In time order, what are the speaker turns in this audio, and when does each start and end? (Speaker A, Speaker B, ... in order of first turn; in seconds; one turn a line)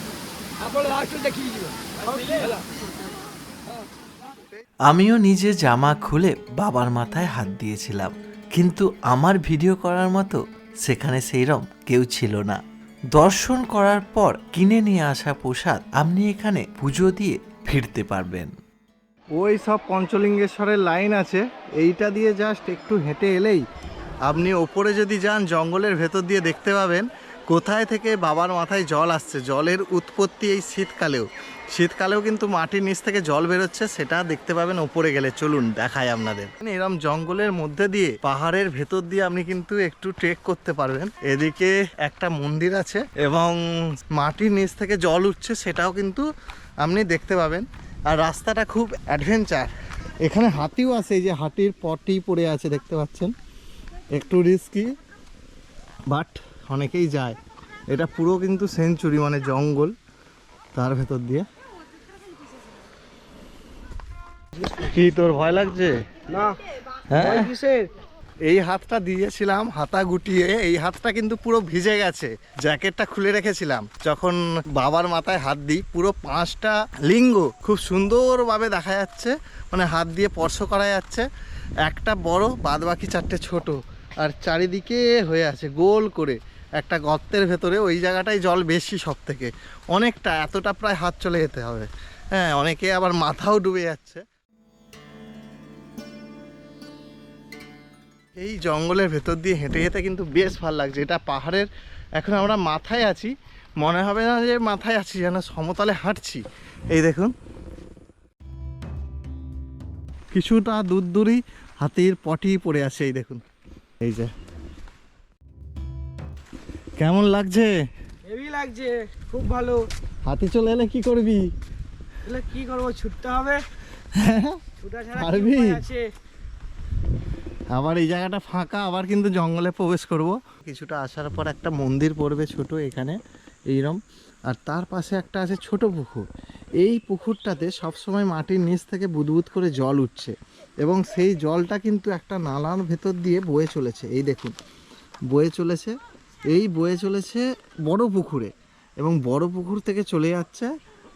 Speaker A: 0.6-2.6
Speaker B: 4.8-12.6
Speaker B: 13.1-18.5
Speaker C: 19.3-23.6
Speaker C: 24.2-46.2
Speaker C: 46.8-49.7
Speaker C: 50.2-53.3
Speaker C: 54.1-54.9
Speaker C: 56.1-57.4
Speaker C: 57.9-59.9
Speaker C: 60.7-61.5
Speaker C: 64.7-66.0
Speaker A: 66.3-66.6
Speaker C: 67.1-67.5
Speaker A: 67.1-67.9
Speaker C: 68.4-81.2
Speaker C: 81.8-94.2
Speaker C: 98.4-101.7
Speaker C: 102.2-107.3
Speaker C: 110.3-113.4
Speaker C: 114.0-114.3
Speaker C: 117.0-117.8
Speaker A: 118.2-119.8
Speaker C: 120.2-121.5
Speaker A: 122.2-123.6
Speaker C: 124.1-124.6
Speaker A: 124.8-126.1
Speaker C: 125.1-125.8
Speaker C: 127.7-133.2
Speaker C: 133.7-136.3
Speaker C: 136.8-144.5
Speaker C: 145.3-145.9
Speaker C: 146.5-150.7